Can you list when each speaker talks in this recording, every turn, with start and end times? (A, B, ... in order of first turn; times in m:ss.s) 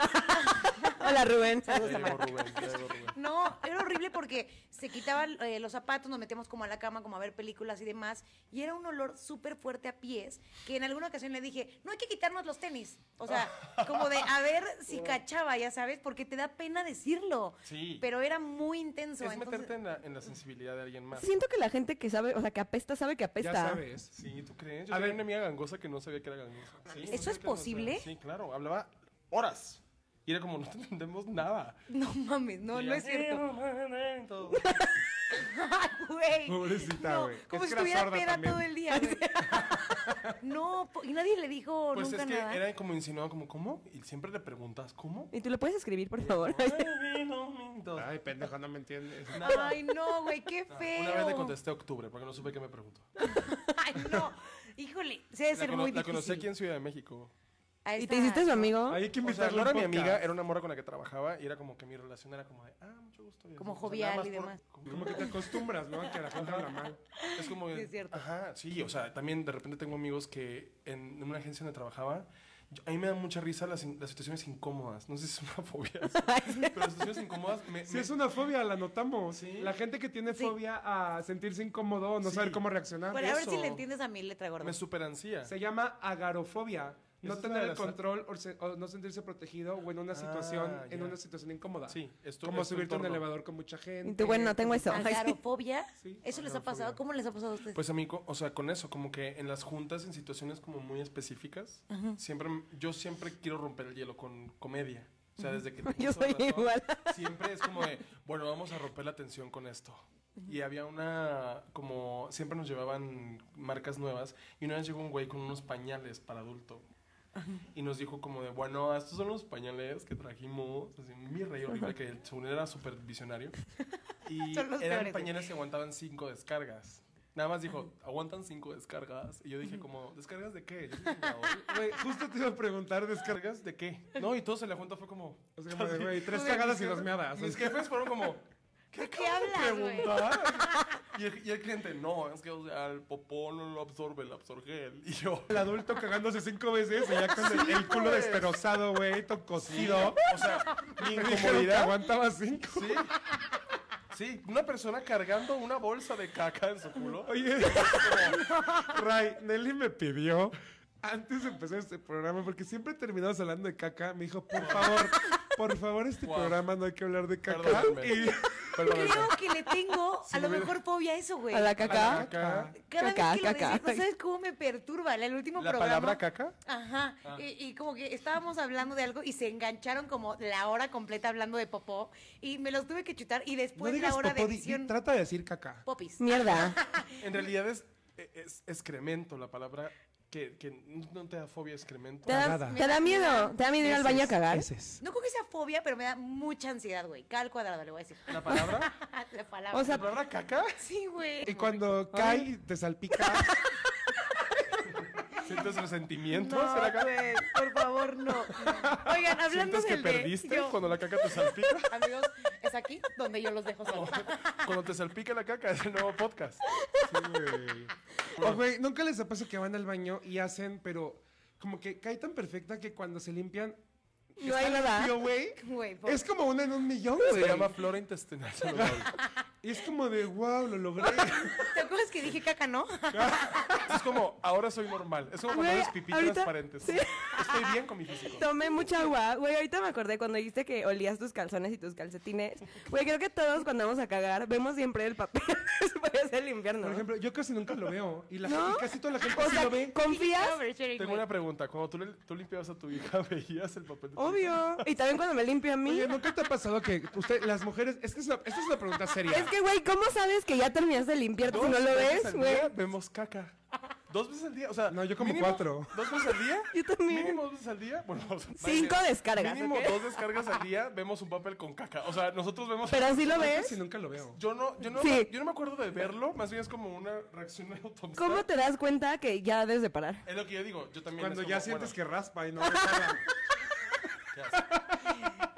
0:00.1-0:19.7 A
0:00.2-0:02.3 B
0:01.7-0:03.1 C
0:13.3-0:14.3 C
0:17.6-0:18.0 C
0:19.2-0:21.3 C
0:21.1-0:23.8 B
0:23.4-0:24.1 D
0:24.1-0:31.8 C
0:24.9-0:25.2 D
0:27.1-0:28.1 A
0:31.9-0:33.5 A
0:32.7-0:34.6 C
0:34.6-0:39.8 A
0:36.4-0:38.6 D
0:38.9-0:39.2 B
0:39.4-0:40.3 D
0:40.4-0:42.6 A
0:41.9-0:45.3 C
0:45.3-0:46.9 B
0:46.2-0:48.1 C
0:48.0-0:49.5 D
0:49.3-0:49.8 C
0:49.4-0:51.5 A
0:50.7-0:53.1 C
0:53.4-0:56.5 A
0:55.5-0:57.3 C
0:57.8-0:58.7 A
0:58.0-0:59.0 B
0:58.8-1:00.3 D
0:59.2-1:05.4 C
1:03.6-1:04.6 A
1:04.9-1:07.0 D
1:06.3-1:18.2 C
1:07.2-1:08.2 A
1:16.3-1:16.7 B
1:17.8-1:23.4 D
1:19.3-1:19.7 C
1:22.2-1:22.6 C
1:23.1-1:24.8 A
1:23.2-1:23.8 C
1:24.6-1:25.5 C
1:25.4-1:35.1 D
1:27.2-1:28.0 C
1:30.1-1:31.2 C
1:31.9-1:33.2 C
1:34.0-1:35.4 B
1:34.9-1:37.8 A
1:36.0-1:37.0 D
1:37.7-1:56.8 C
1:41.9-1:42.2 A
1:45.8-1:47.2 B
1:57.4-1:57.6 A
1:57.7-2:03.6 C
2:04.2-2:11.7 C
2:04.5-2:05.3 A
2:11.5-2:13.3 D
2:13.2-2:25.6 C
2:15.6-2:17.8 D
2:18.9-2:20.8 A
2:25.5-2:30.4 D
2:27.1-2:28.6 C
2:29.6-2:32.0 C
2:31.1-2:33.1 D
2:32.7-2:33.1 C
2:34.1-2:38.4 C
2:37.2-2:49.2 D
2:44.5-2:45.1 C
2:46.2-2:46.6 C
2:47.5-2:49.4 C
2:48.8-2:51.8 A
2:50.2-2:50.8 C
2:51.5-2:52.3 B
2:51.8-2:52.7 C
2:51.8-2:52.8 D
2:52.7-3:04.9 A
2:53.0-2:54.0 B
2:55.6-2:56.6 C
3:03.8-3:05.8 D
3:05.8-3:07.2 A
3:06.2-3:06.8 B
3:07.1-3:12.6 C
3:12.2-3:14.7 B
3:12.3-3:12.8 D
3:12.6-3:13.6 A
3:13.8-3:15.0 D
3:15.0-3:20.0 A
3:18.3-3:18.9 C
3:19.7-3:20.0 B
3:19.8-3:20.8 C
3:20.8-3:21.8 A
3:21.4-3:23.6 D
3:22.1-3:22.5 B
3:24.9-3:27.3 C
3:26.3-3:30.8 A
3:28.6-3:29.1 D
3:29.4-3:31.9 C
3:31.9-3:34.6 A
3:33.8-3:36.6 C
3:37.0-3:43.8 D
3:38.3-3:38.6 C
3:44.4-3:47.7 D
3:44.4-3:45.2 B
3:45.6-3:46.2 A
3:47.2-3:49.2 C
3:48.7-3:49.1 D
3:49.6-3:51.7 D
3:51.5-3:53.8 A
3:53.1-3:54.0 D
3:53.8-3:58.5 C
3:55.5-3:57.6 B
3:58.2-4:07.0 B
4:06.8-4:10.0 D
4:08.4-4:10.6 B
4:10.0-4:11.3 A
4:11.0-4:14.9 C
4:14.2-4:16.1 B
4:15.8-4:19.5 D
4:19.3-4:22.7 B
4:21.4-4:23.5 C
4:24.1-4:33.7 C
4:24.9-4:26.1 D
4:26.7-4:27.4 B
4:28.6-4:30.1 B
4:32.9-4:33.8 B
4:33.2-4:34.4 D
4:34.3-4:38.5 C
4:35.0-4:35.3 B
4:38.2-4:40.2 B
4:40.2-4:42.0 C
4:41.2-4:43.3 D
4:44.3-4:44.7 C
4:44.6-4:45.2 D